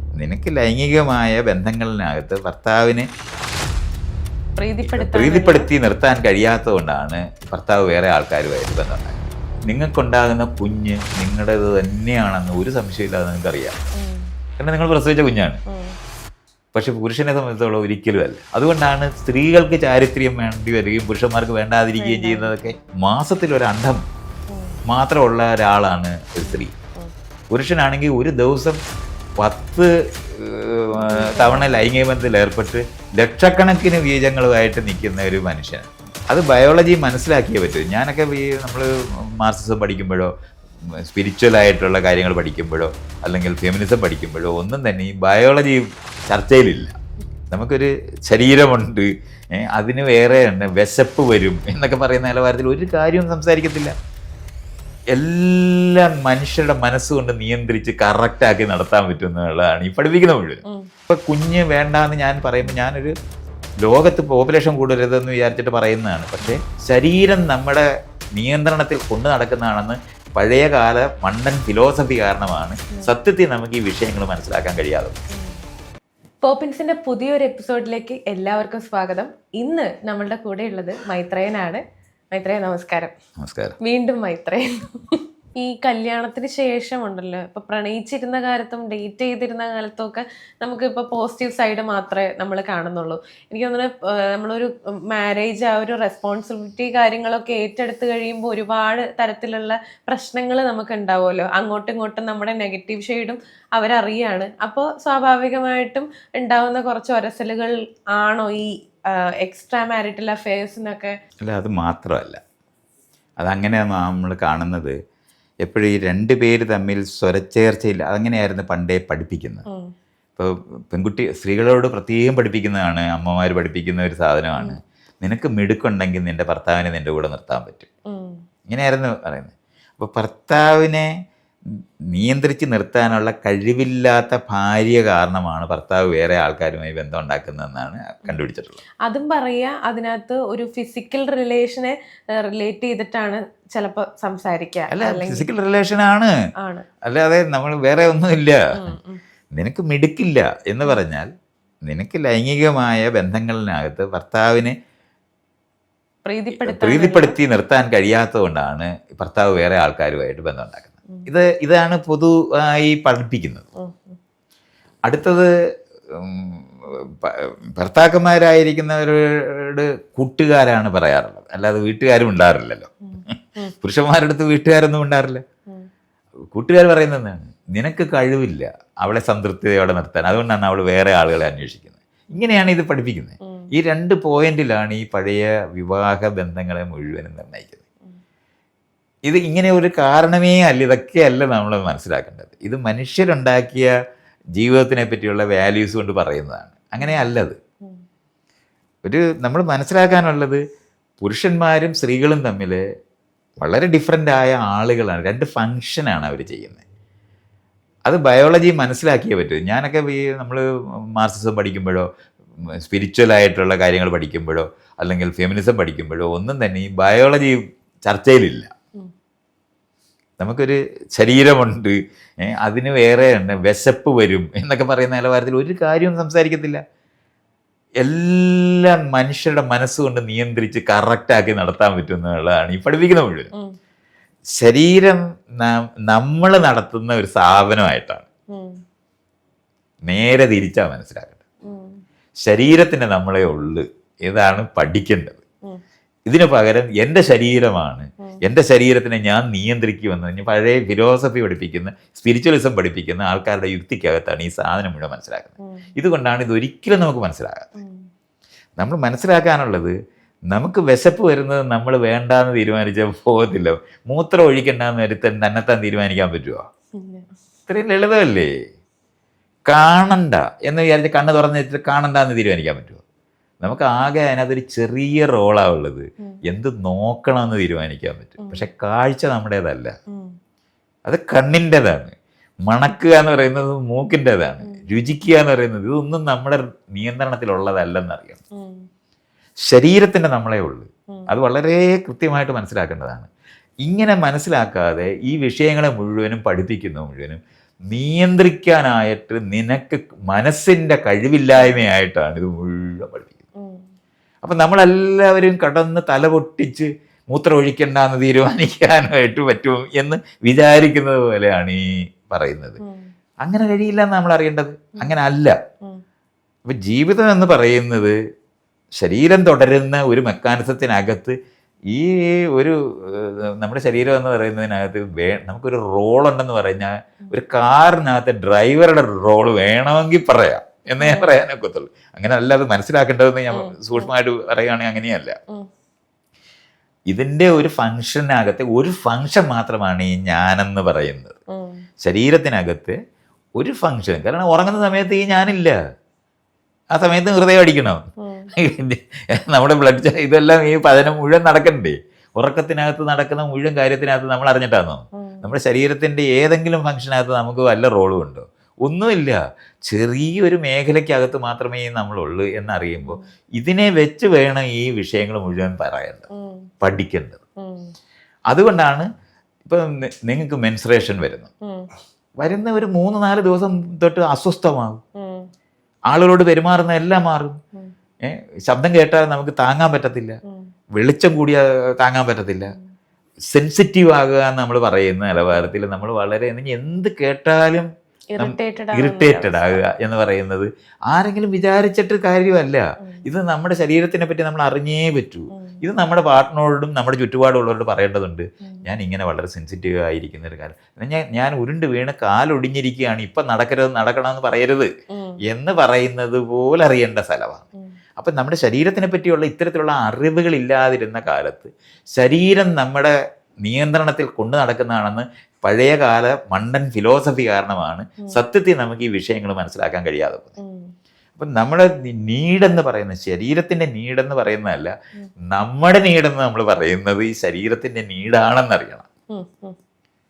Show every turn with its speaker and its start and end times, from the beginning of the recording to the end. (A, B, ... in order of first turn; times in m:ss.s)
0:00.2-0:03.1 A
0:04.6-0:05.7 B
0:04.9-0:13.8 A
0:14.0-0:14.3 B
0:14.6-0:15.6 A
0:15.7-0:16.0 B
0:16.7-0:24.0 A
0:22.0-0:22.5 B
0:24.5-0:24.8 B
0:24.9-0:26.7 A
0:26.4-0:27.1 B
0:27.5-0:28.8 A
0:29.4-0:40.3 A
0:30.9-0:31.9 B
0:41.0-0:46.9 A
0:47.5-0:53.9 A
0:55.1-1:03.1 A
1:03.8-1:07.8 A
1:08.4-1:15.2 A
1:16.4-1:21.8 B
1:22.3-1:23.1 B
1:23.4-1:23.8 A
1:23.8-1:51.1 B
1:51.4-1:52.4 A
1:53.4-1:55.0 A
1:55.6-1:59.6 A
2:00.4-2:07.9 A
2:08.1-2:08.4 B
2:08.7-2:11.1 A
2:12.1-2:18.8 A
2:19.0-2:25.5 B
2:24.9-2:26.3 A
2:26.6-2:26.9 B
2:27.0-2:28.7 A
2:28.8-2:29.2 B
2:29.6-2:31.3 A
2:31.9-2:34.8 A
2:36.3-2:37.4 B
2:36.6-2:43.6 A
2:43.8-2:44.2 B
2:45.1-2:45.5 A
2:46.1-2:55.4 A
2:53.1-2:53.7 B
2:56.5-3:07.8 A
3:03.4-3:03.7 B
3:09.3-3:13.9 A
3:14.6-3:17.6 A
3:17.0-3:18.0 B
3:19.0-3:20.6 A
3:21.2-3:22.8 A
3:23.6-3:26.8 A
3:28.1-3:32.1 A
3:32.8-3:38.7 A
3:40.4-3:46.8 A
3:48.0-3:53.5 A
3:54.6-3:58.3 A
3:58.5-3:58.8 B
4:00.0-4:01.4 A
4:01.6-4:02.0 B
4:02.5-4:05.4 A
4:06.3-4:17.7 A
4:15.6-4:15.9 B
4:17.8-4:18.1 B
4:18.8-4:19.9 A
4:20.5-4:26.6 A
4:27.0-4:27.3 B
4:27.7-4:28.6 A
4:29.7-4:33.0 A
4:33.6-4:40.0 A
4:38.4-4:38.7 B
4:40.1-4:40.3 B
4:41.1-4:48.4 A
4:48.5-4:48.9 B
4:49.7-4:53.3 A
4:53.8-5:03.4 A
5:03.6-5:03.9 B
5:04.4-5:12.8 A
5:12.8-5:13.1 B
5:13.4-5:15.6 A
5:16.7-5:18.2 A
5:19.0-5:21.4 A
5:21.9-5:35.4 A
5:31.0-5:31.3 B
5:33.5-5:34.1 B
5:37.1-5:41.4 A
5:41.5-5:41.8 B
5:42.0-5:43.0 A
5:43.6-5:45.8 A
5:46.9-5:48.0 A
5:48.2-5:48.5 B
5:48.6-6:06.3 A
5:55.2-5:55.5 B
6:06.3-6:06.6 B
6:06.8-6:07.4 A
6:07.6-6:07.9 B
6:08.5-6:09.1 A
6:09.6-6:11.5 A
6:11.6-6:11.9 B
6:12.4-6:15.0 A
6:15.2-6:15.5 B
6:16.1-6:17.6 A
6:18.2-6:20.4 A
6:21.0-6:22.8 A
6:23.5-6:44.9 A
6:28.3-6:29.8 B
6:35.5-6:35.8 B
6:45.1-6:45.4 B
6:45.5-6:47.6 A
6:48.2-7:00.6 A
7:00.6-7:00.9 B
7:01.4-7:04.9 A
7:05.5-7:09.1 A
7:09.3-7:09.8 B